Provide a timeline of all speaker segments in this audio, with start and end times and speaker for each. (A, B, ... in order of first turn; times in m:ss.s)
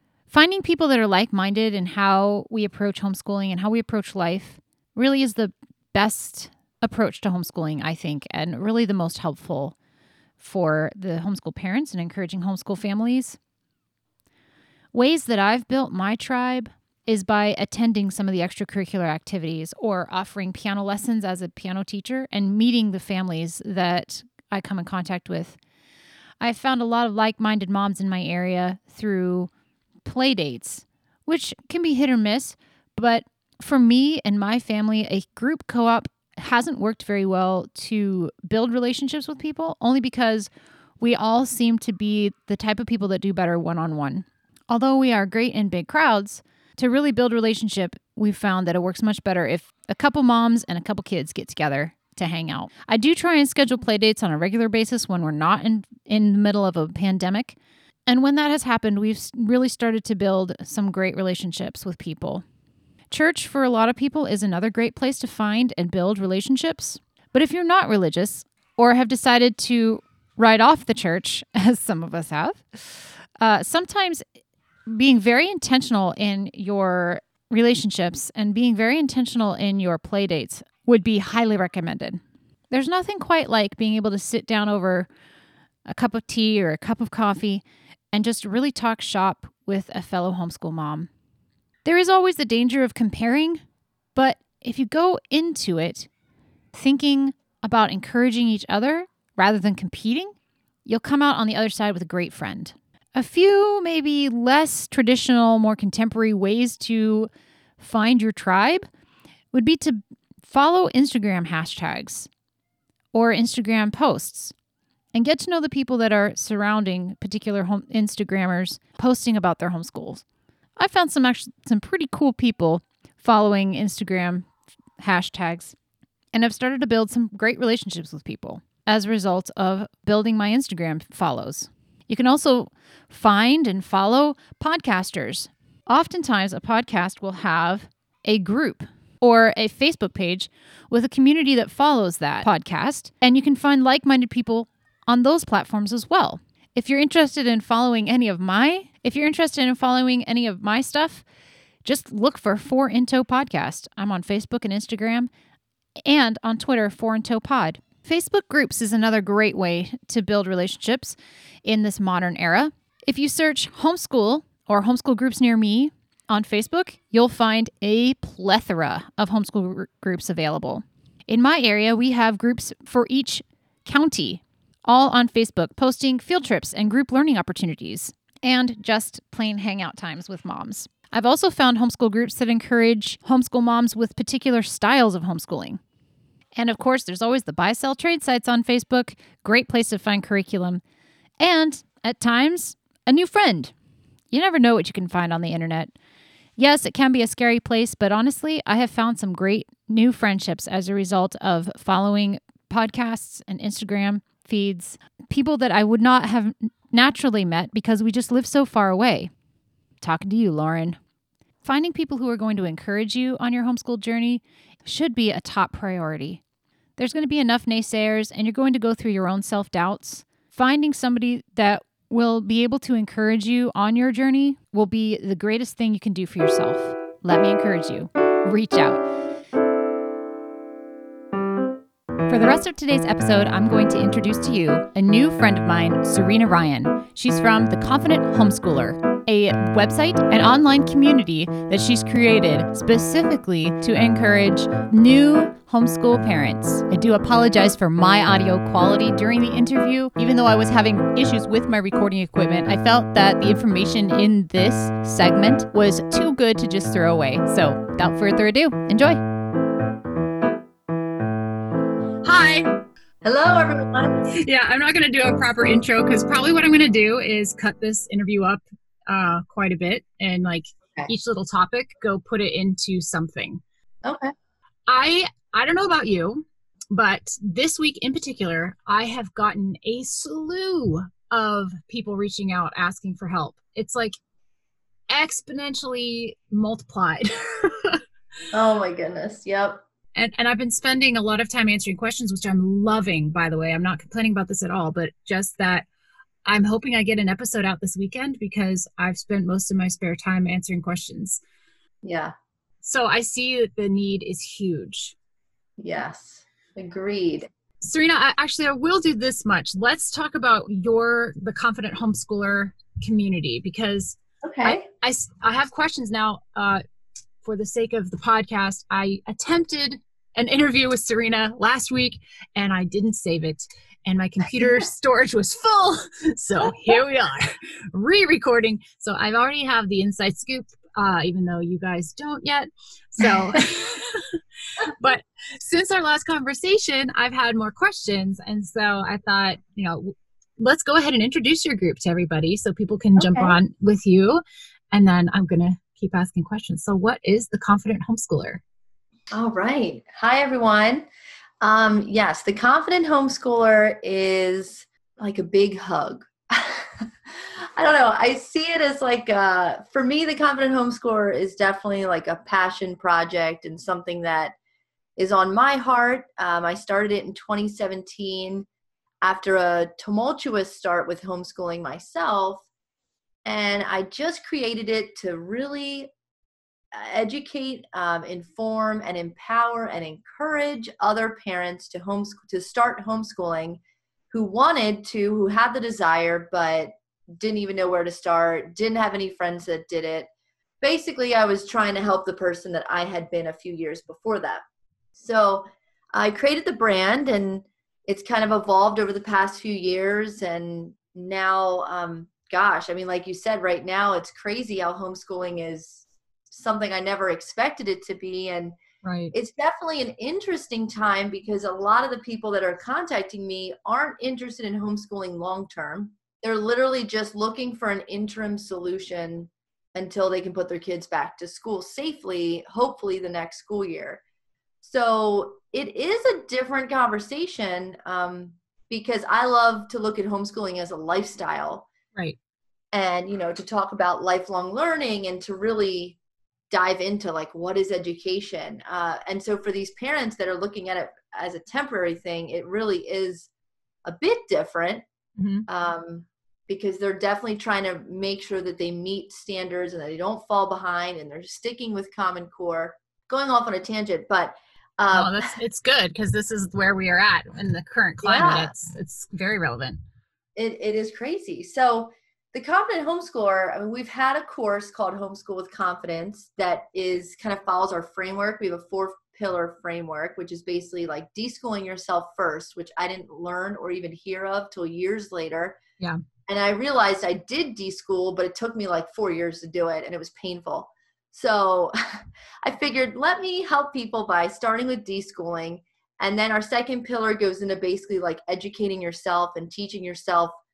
0:00.3-0:09.7 A
0:10.4-0:13.4 A
0:14.9-0:25.6 A
0:26.4-0:29.5 A
0:30.0-1:02.4 A
1:03.1-1:14.2 A
1:14.9-1:25.1 A
1:25.8-1:31.1 A
1:31.8-1:33.6 A
1:34.1-1:36.1 A
1:36.7-1:40.3 A
1:40.8-1:48.9 A
1:49.5-1:52.3 A
1:53.1-1:54.5 A
1:55.1-2:00.2 A
2:00.8-2:04.5 A
2:05.0-2:05.7 A
2:06.3-2:31.2 A
2:31.8-2:35.3 A
2:36.0-3:05.8 A
3:06.6-3:10.8 A
3:11.4-3:13.7 A
3:14.3-3:15.9 A
3:16.6-3:29.3 A
3:30.0-3:31.0 A
3:31.6-3:36.4 A
3:37.0-3:49.0 A
3:52.3-4:19.2 A
4:22.2-4:22.8 B
4:23.2-4:24.2 C
4:24.3-4:33.6 B
4:34.0-4:34.3 C
4:34.9-4:44.2 B
4:45.1-4:48.0 B
4:48.5-4:49.8 C
4:50.2-4:55.8 B
4:56.4-5:01.4 B
5:02.0-5:02.3 C
5:02.8-5:05.1 B
5:05.8-5:07.5 C
5:07.8-5:16.8 B
5:14.4-5:14.8 C
5:17.4-5:34.3 B
5:24.6-5:24.8 C
5:34.9-5:48.6 B
5:43.2-5:43.6 C
5:49.3-5:51.1 C
5:51.6-6:04.5 C
6:05.2-6:08.6 C
6:09.2-6:12.6 C
6:13.4-6:16.1 C
6:16.9-6:30.3 C
6:30.8-6:48.8 C
6:49.0-6:49.3 B
6:49.3-7:04.2 C
7:04.8-7:11.9 C
7:12.9-7:16.2 C
7:16.7-7:23.5 C
7:24.0-7:25.0 C
7:25.4-7:25.6 B
7:25.7-7:35.5 C
7:35.1-7:40.0 B
7:38.2-7:38.7 C
7:40.6-7:55.8 C
7:56.5-8:10.6 C